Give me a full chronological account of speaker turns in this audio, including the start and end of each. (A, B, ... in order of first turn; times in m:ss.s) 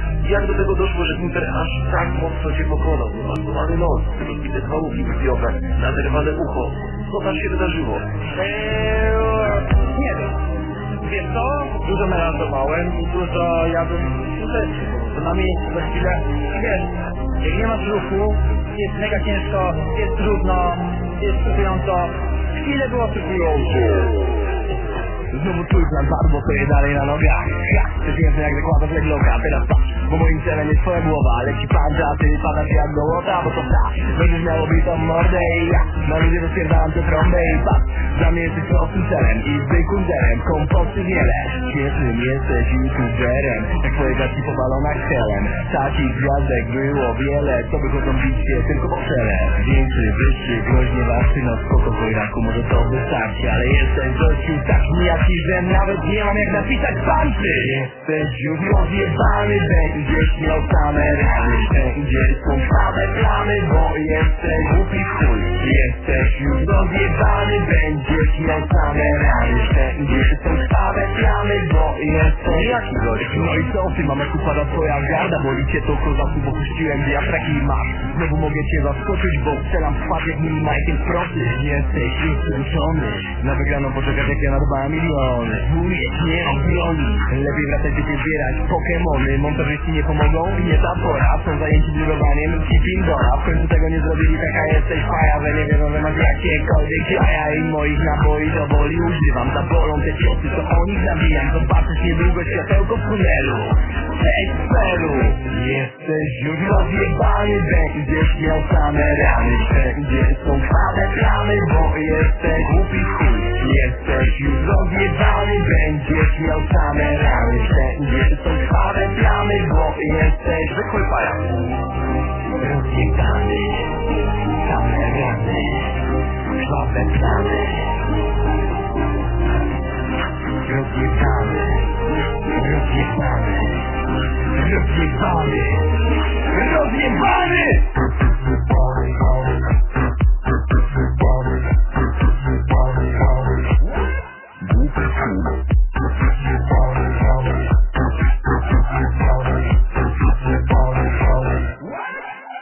0:00.2-0:08.1 A
0:08.3-0:10.4 B
0:11.0-0:24.3 B
0:25.3-1:52.7 C
1:04.7-1:05.4 A
1:12.4-1:13.6 A
1:52.6-1:53.5 A
1:53.5-2:00.7 C
2:00.7-2:01.5 A
2:02.6-2:08.0 C
2:10.6-2:18.0 C
2:18.9-2:19.4 C
2:22.8-2:23.6 C
2:24.7-2:25.5 C
2:26.6-2:27.6 C
2:29.1-2:29.7 C
2:30.4-2:31.6 C